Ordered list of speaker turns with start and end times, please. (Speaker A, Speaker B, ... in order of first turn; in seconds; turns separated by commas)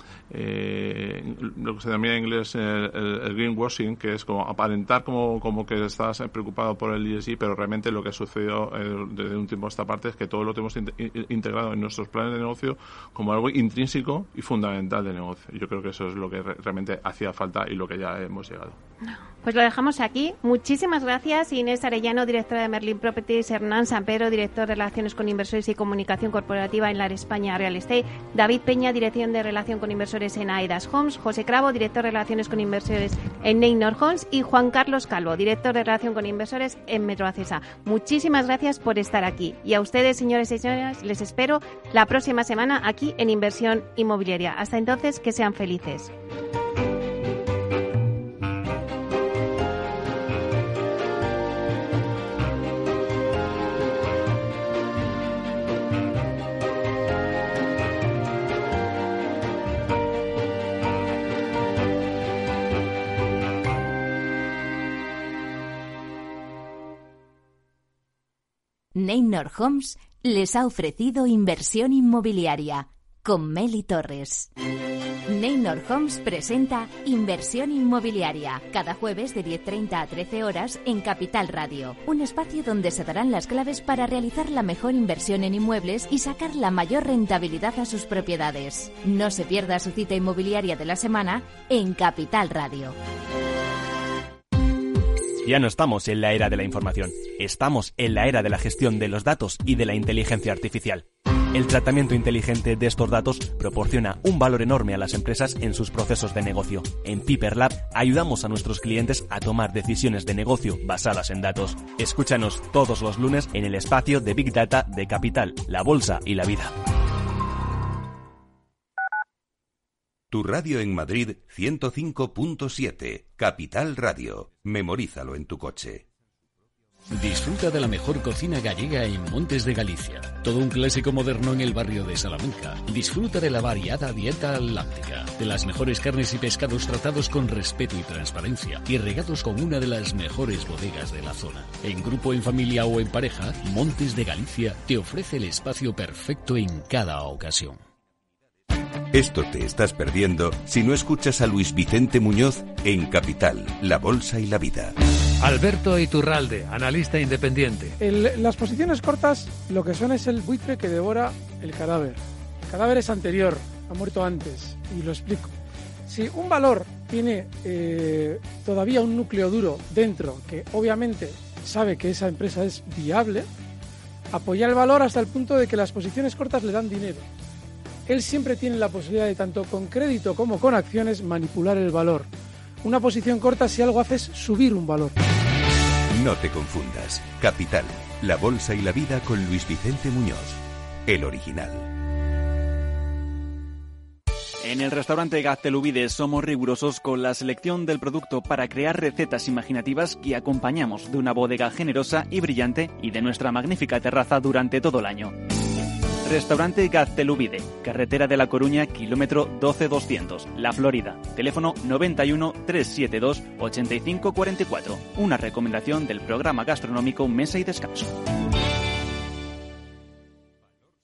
Speaker A: 0.3-18.8, Speaker B: 19.0-46.1, Speaker C: 68.9-74.5, Speaker C: 75.3-92.9, Speaker D: 95.4-116.8, Speaker E: 120.3-126.0, Speaker F: 127.1-147.8, Speaker E: 149.1-154.9, Speaker G: 155.4-157.9, Speaker H: 158.0-165.5, Speaker H: 166.1-173.5, Speaker H: 174.3-177.3, Speaker H: 178.1-182.3, Speaker H: 182.8-185.2, Speaker E: 186.1-191.9, Speaker I: 194.6-205.4, Speaker I: 206.2-218.2